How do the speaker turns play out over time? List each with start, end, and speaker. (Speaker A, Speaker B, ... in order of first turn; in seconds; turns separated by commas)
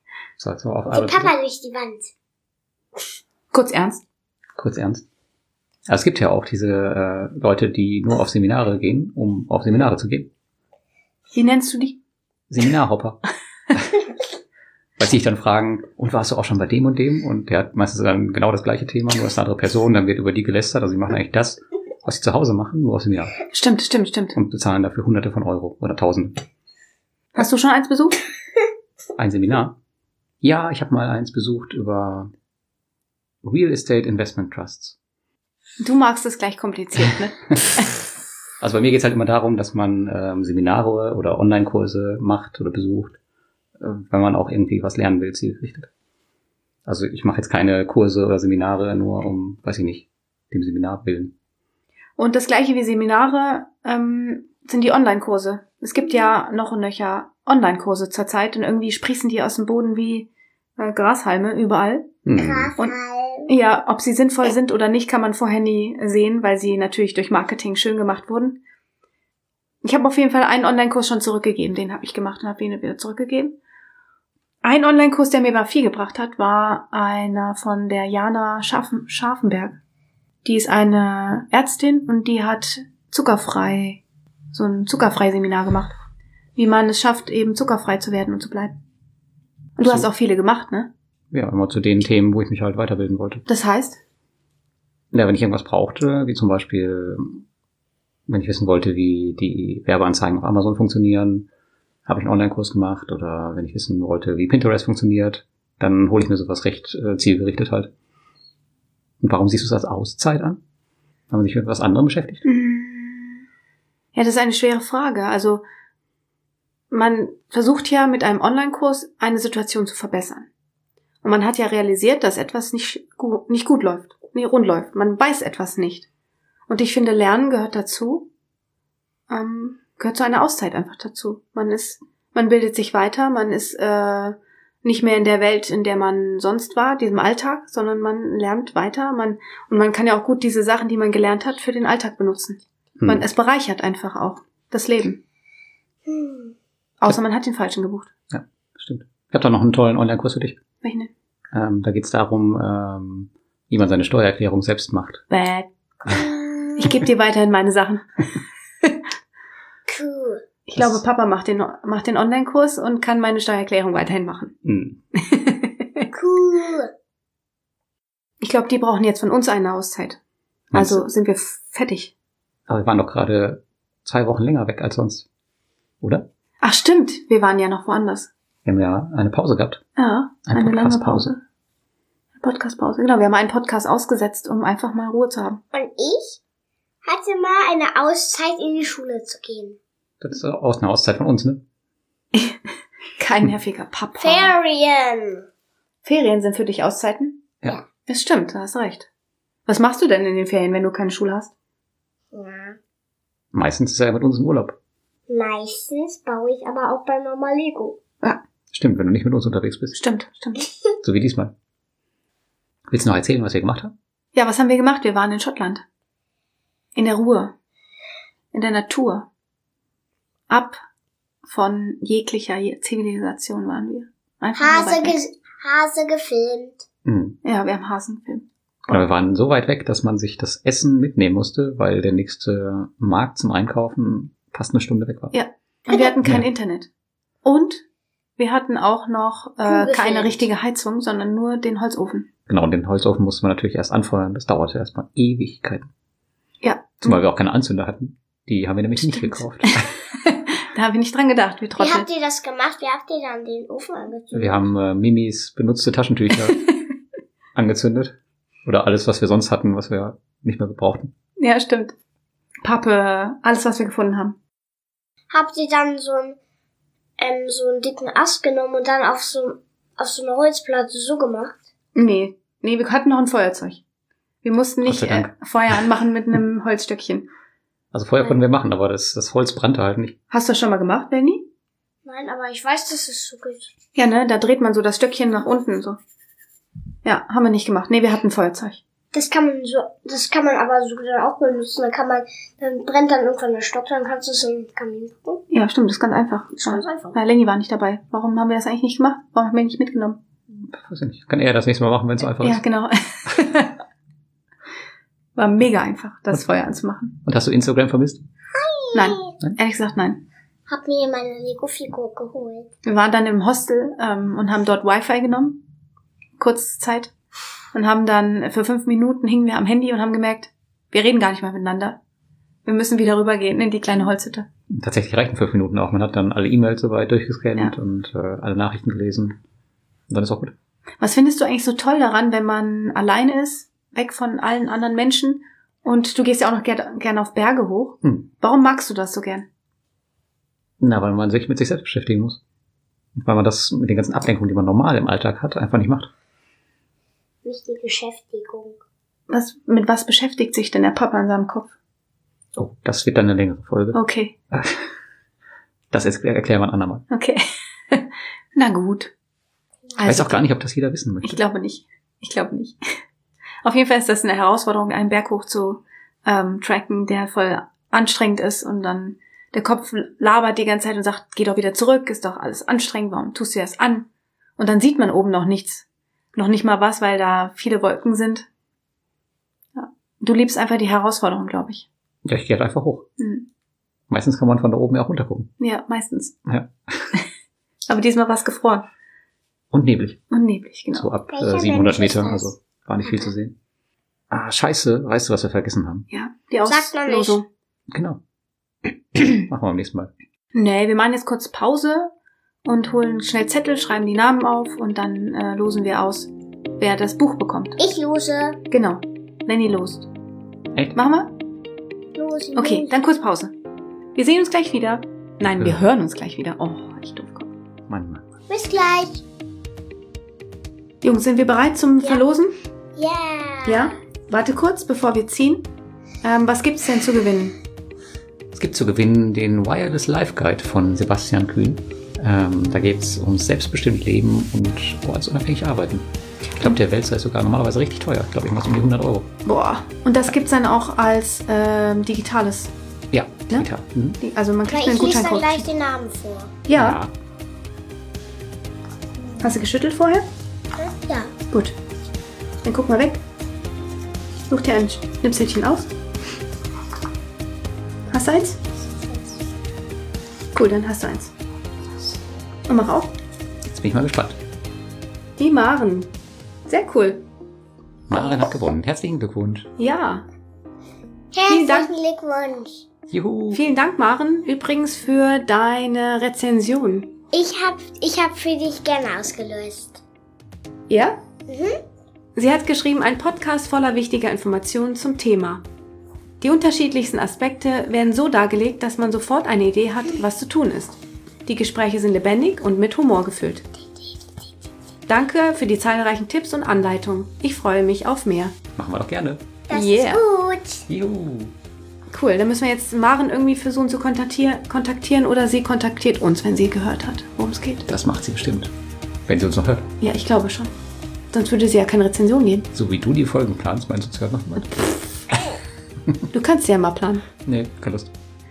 Speaker A: 0.4-1.3, Speaker B: 0.9-2.1, Speaker C: 3.5-4.0, Speaker A: 4.6-5.0, Speaker A: 5.9-10.3, Speaker C: 11.3-12.0, Speaker A: 12.5-13.2, Speaker A: 13.7-14.0, Speaker A: 15.0-23.4, Speaker C: 23.5-24.4, Speaker A: 24.4-26.4, Speaker C: 27.4-28.2, Speaker A: 29.2-29.8, Speaker A: 30.4-32.3, Speaker A: 33.4-35.0, Speaker C: 35.8-37.8, Speaker A: 38.6-43.2, Speaker A: 43.8-45.9, Speaker A: 46.9-51.3, Speaker C: 52.2-62.1, Speaker A: 62.3-62.7, Speaker B: 62.4-63.5, Speaker C: 63.5-68.6, Speaker C: 69.8-73.6, Speaker C: 74.6-79.8, Speaker C: 80.4-86.0, Speaker C: 86.6-88.8, Speaker C: 89.8-90.9, Speaker A: 89.8-90.1, Speaker A: 91.3-93.5, Speaker C: 93.5-94.0, Speaker A: 95.1-97.4, Speaker A: 98.3-101.5, Speaker A: 102.1-107.9, Speaker A: 109.2-110.6, Speaker A: 111.3-112.4, Speaker C: 112.5-113.5, Speaker C: 114.2-115.6, Speaker C: 116.9-120.5, Speaker C: 121.2-126.1, Speaker C: 126.7-128.3, Speaker C: 129.3-145.2, Speaker A: 143.0-143.2, Speaker B: 146.1-146.6, Speaker C: 147.0-148.1, Speaker A: 148.3-150.6, Speaker C: 150.8-151.1, Speaker A: 151.5-155.2, Speaker C: 155.3-155.7, Speaker B: 156.1-157.0, Speaker C: 156.8-158.3, Speaker B: 159.9-160.4, Speaker C: 160.7-164.5, Speaker A: 160.8-161.0, Speaker A: 164.7-165.0, Speaker C: 165.2-166.1, Speaker B: 166.1-166.9, Speaker C: 168.4-170.2, Speaker A: 170.7-171.1, Speaker C: 170.7-172.1, Speaker A: 172.7-175.3, Speaker A: 176.0-176.3, Speaker C: 176.6-178.3, Speaker A: 178.7-179.8, Speaker C: 180.0-181.4, Speaker A: 180.5-181.3, Speaker C: 182.4-185.6, Speaker B: 185.7-186.4, Speaker B: 187.1-189.8, Speaker A: 190.2-191.6, Speaker C: 193.2-194.6, Speaker B: 194.2-195.5, Speaker C: 196.0-197.4, Speaker C: 198.1-199.1, Speaker C: 199.7-201.5, Speaker B: 202.3-202.8, Speaker A: 203.5-204.8, Speaker B: 205.3-208.0, Speaker A: 208.7-210.0, Speaker C: 209.9-210.7, Speaker A: 211.0-211.5, Speaker A: 212.9-213.9, Speaker C: 214.3-215.8, Speaker C: 216.9-217.6, Speaker C: 218.5-219.3, Speaker C: 220.5-220.8, Speaker C: 221.4-225.2, Speaker B: 224.6-226.8, Speaker A: 227.1-227.4, Speaker C: 227.4-229.1, Speaker A: 228.9-235.3, Speaker C: 235.3-236.9, Speaker C: 237.4-237.8, Speaker C: 238.4-242.3, Speaker B: 239.6-240.5, Speaker A: 242.5-245.9, Speaker C: 246.6-247.2, Speaker A: 247.0-249.8, Speaker C: 249.0-252.1, Speaker B: 251.8-254.7, Speaker A: 254.3-256.6, Speaker A: 257.6-258.1, Speaker A: 258.6-261.1, Speaker C: 261.4-261.9, Speaker C: 262.6-264.4, Speaker B: 265.3-266.4, Speaker B: 267.2-271.6, Speaker C: 271.9-273.8, Speaker C: 274.4-277.3, Speaker A: 274.9-275.8, Speaker A: 277.9-280.1, Speaker C: 280.3-281.4, Speaker B: 282.1-283.7, Speaker C: 283.9-286.0, Speaker C: 287.1-288.8, Speaker B: 289.1-295.4, Speaker C: 295.5-300.2, Speaker B: 296.5-297.2, Speaker A: 300.5-302.6, Speaker C: 302.4-303.8, Speaker C: 305.4-307.2, Speaker A: 307.2-308.2, Speaker B: 308.6-309.3, Speaker C: 308.9-310.2, Speaker B: 310.7-312.7, Speaker C: 312.9-315.6, Speaker C: 316.4-317.1, Speaker C: 317.7-322.0, Speaker C: 322.7-324.5, Speaker A: 324.7-329.4, Speaker A: 330.1-330.5, Speaker C: 331.0-339.5, Speaker A: 340.8-342.4, Speaker A: 343.2-346.1, Speaker B: 347.4-348.8, Speaker C: 349.3-351.7, Speaker A: 352.6-354.0, Speaker C: 353.9-354.3, Speaker A: 354.5-354.9, Speaker A: 355.9-357.0, Speaker C: 357.1-357.4, Speaker C: 357.9-359.1, Speaker C: 360.0-360.5, Speaker A: 360.0-361.4, Speaker C: 361.2-362.8, Speaker C: 363.6-378.5, Speaker C: 379.8-381.9, Speaker A: 382.3-383.1, Speaker C: 383.2-383.5, Speaker A: 384.1-385.5, Speaker C: 385.6-386.4, Speaker A: 386.5-387.2, Speaker C: 387.9-388.9, Speaker A: 389.7-390.2, Speaker C: 390.3-391.1, Speaker A: 390.9-393.6, Speaker B: 391.3-393.3, Speaker A: 394.3-396.1, Speaker C: 396.1-397.4, Speaker B: 396.6-397.4, Speaker A: 397.9-398.2, Speaker A: 399.3-400.1, Speaker C: 400.5-402.1, Speaker C: 402.6-407.8, Speaker B: 407.8-408.6, Speaker C: 408.7-410.1, Speaker C: 410.9-411.3, Speaker B: 412.1-412.9, Speaker C: 412.6-413.5, Speaker C: 414.1-417.5, Speaker A: 415.4-415.8, Speaker A: 417.9-418.2, Speaker B: 418.5-419.2, Speaker C: 421.0-422.5, Speaker B: 423.0-423.9, Speaker C: 423.6-425.7, Speaker C: 426.2-427.6, Speaker A: 428.5-439.3, Speaker C: 439.4-442.7, Speaker A: 443.1-444.2, Speaker C: 444.2-445.7, Speaker B: 444.7-446.5, Speaker C: 446.7-447.0, Speaker A: 446.7-447.1, Speaker C: 449.4-450.2, Speaker B: 450.8-451.3, Speaker C: 451.5-451.8, Speaker C: 452.6-453.2, Speaker C: 454.5-455.9, Speaker C: 458.1-458.6, Speaker C: 460.5-461.3, Speaker C: 462.7-463.1, Speaker A: 463.7-464.4, Speaker C: 465.4-466.1, Speaker C: 466.7-467.2, Speaker A: 468.1-469.7, Speaker C: 469.8-470.2, Speaker B: 471.3-472.9, Speaker C: 471.5-471.9, Speaker A: 473.1-473.6, Speaker C: 473.5-477.1, Speaker B: 477.3-480.0, Speaker C: 480.9-481.2, Speaker B: 481.5-481.8, Speaker C: 482.4-485.6, Speaker C: 486.4-493.6, Speaker C: 495.1-498.6, Speaker A: 498.8-499.4, Speaker B: 499.7-500.8, Speaker C: 499.7-500.2, Speaker A: 500.9-501.5, Speaker C: 502.1-507.9, Speaker A: 507.9-508.7, Speaker A: 509.3-509.9, Speaker C: 510.0-510.7, Speaker C: 511.3-512.7, Speaker A: 512.7-514.9, Speaker C: 516.3-517.2, Speaker A: 517.5-518.1